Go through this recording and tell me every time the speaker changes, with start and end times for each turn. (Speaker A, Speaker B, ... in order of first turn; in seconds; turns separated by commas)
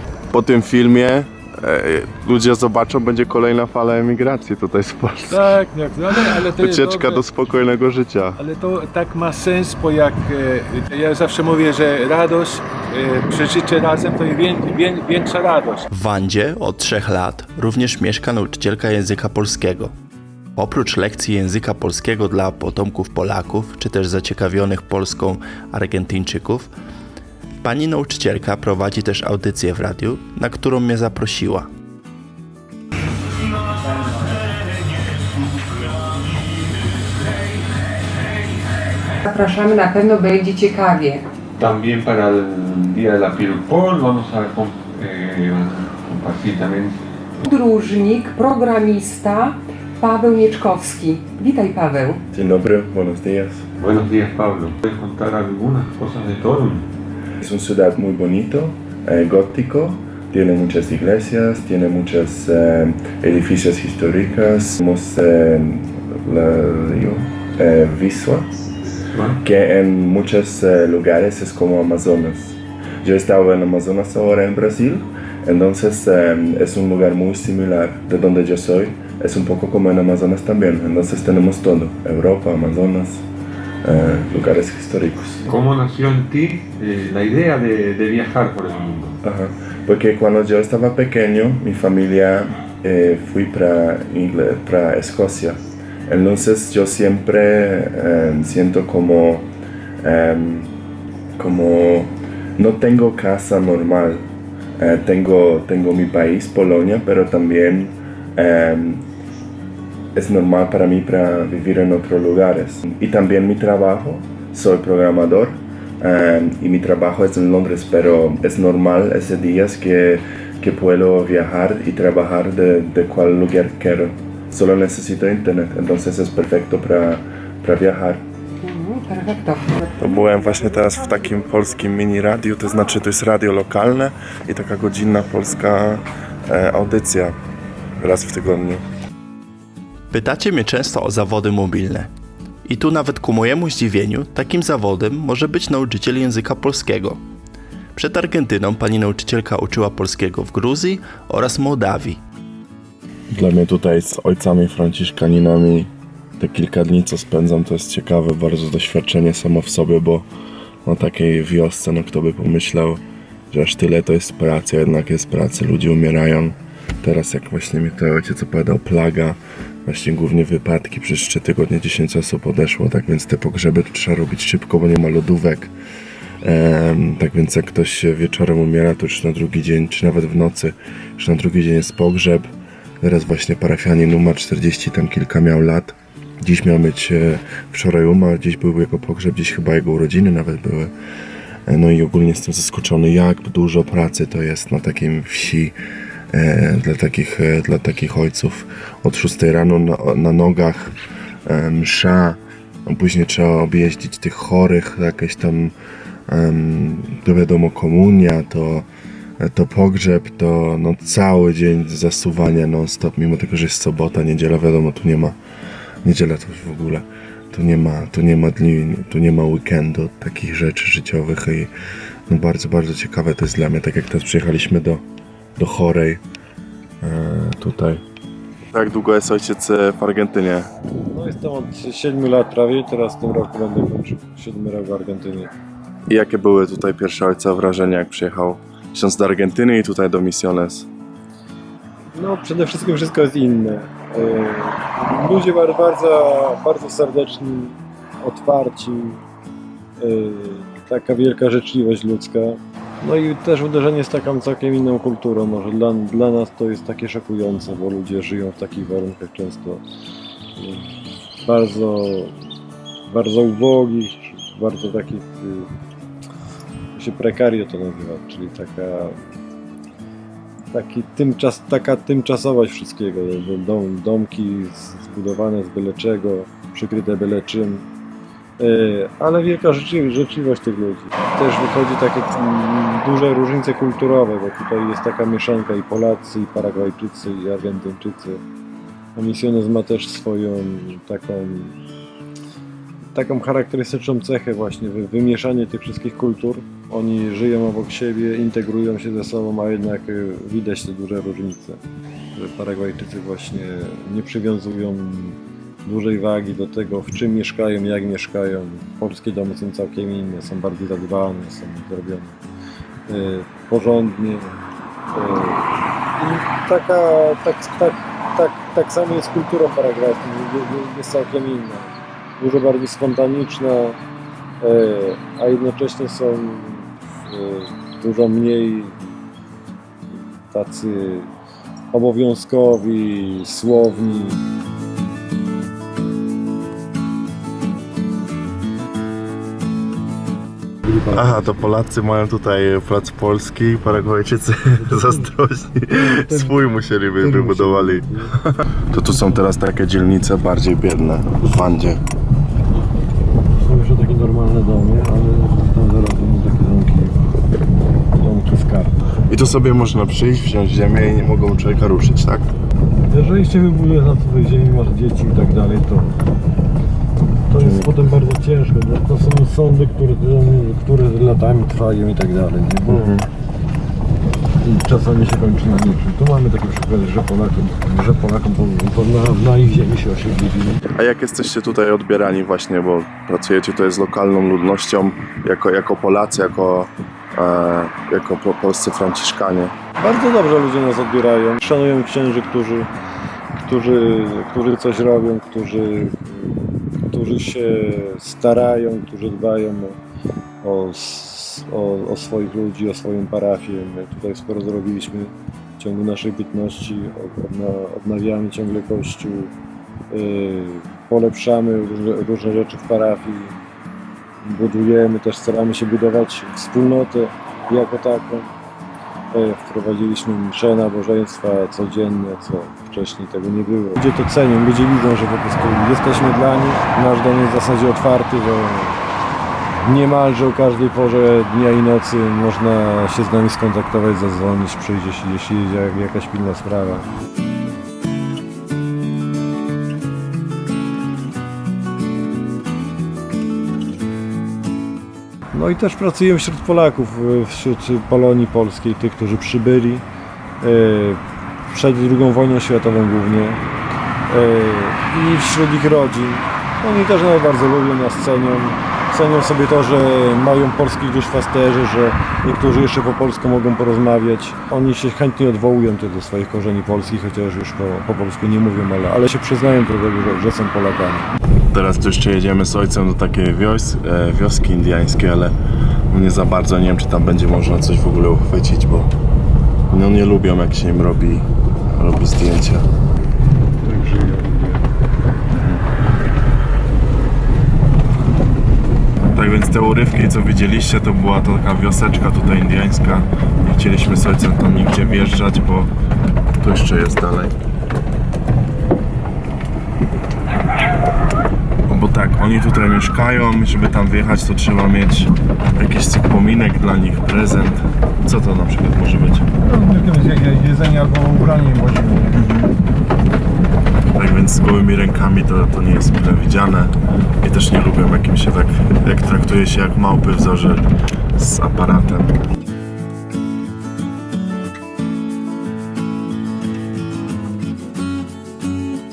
Speaker A: 0.3-5.5, Speaker B: 5.3-7.2, Speaker A: 6.1-8.4, Speaker B: 8.3-15.9, Speaker C: 15.9-19.9, Speaker C: 20.6-26.7, Speaker C: 27.6-31.7, Speaker D: 39.2-41.2, Speaker E: 41.6-47.0, Speaker D: 47.4-52.2, Speaker A: 52.3-53.7, Speaker E: 53.8-56.9, Speaker A: 57.4-68.5, Speaker E: 69.1-69.4, Speaker A: 69.4-83.2, Speaker A: 83.8-85.4, Speaker E: 85.5-89.1, Speaker A: 89.2-99.5, Speaker A: 100.0-100.7, Speaker A: 101.4-104.2, Speaker A: 104.8-109.0, Speaker A: 110.1-128.2, Speaker D: 128.6-130.0, Speaker A: 130.0-137.3, Speaker A: 138.0-138.8, Speaker C: 140.1-142.1, Speaker C: 142.6-147.2, Speaker C: 147.9-152.2, Speaker A: 153.3-160.3, Speaker A: 160.8-175.7, Speaker A: 176.4-182.5, Speaker A: 183.0-190.9, Speaker A: 191.7-195.7, Speaker A: 196.3-200.9, Speaker A: 201.4-205.7, Speaker A: 206.3-208.8, Speaker A: 209.4-215.3, Speaker A: 216.0-221.7, Speaker A: 222.3-225.0, Speaker A: 225.6-226.2, Speaker A: 227.0-228.0, Speaker A: 228.7-230.7, Speaker F: 231.1-235.5, Speaker A: 236.1-240.9, Speaker F: 242.1-249.2, Speaker F: 250.0-259.8, Speaker F: 260.6-260.9, Speaker F: 261.4-262.4, Speaker F: 263.1-265.7, Speaker F: 266.9-269.2, Speaker F: 270.7-277.9, Speaker F: 278.6-288.4, Speaker F: 289.1-291.8, Speaker F: 293.1-301.8, Speaker F: 302.3-312.4, Speaker F: 313.1-314.5, Speaker F: 315.1-324.0, Speaker F: 324.6-329.1, Speaker F: 330.1-331.3, Speaker F: 331.9-334.4, Speaker F: 340.8-341.4, Speaker A: 341.1-348.1, Speaker F: 346.1-346.5, Speaker F: 347.2-348.3, Speaker A: 348.9-352.0, Speaker F: 353.5-357.2, Speaker F: 358.1-358.9, Speaker A: 359.3-362.5, Speaker F: 363.1-366.2, Speaker F: 367.5-373.1, Speaker A: 367.6-367.9, Speaker A: 372.9-373.3, Speaker F: 374.6-380.8, Speaker A: 380.9-389.7, Speaker F: 390.0-392.9, Speaker F: 393.6-400.0, Speaker F: 400.6-409.5, Speaker F: 410.1-413.6, Speaker F: 414.4-418.5, Speaker F: 419.3-429.0, Speaker F: 429.8-437.1, Speaker F: 445.5-450.0, Speaker F: 450.6-453.6, Speaker F: 454.3-471.3, Speaker A: 471.7-475.5, Speaker A: 476.1-479.1, Speaker A: 479.9-482.9, Speaker F: 483.8-484.9, Speaker A: 485.5-485.8, Speaker A: 489.3-495.9, Speaker A: 496.6-497.6, Speaker A: 501.9-509.5, Speaker F: 509.6-512.4, Speaker A: 512.3-512.8, Speaker A: 514.1-522.4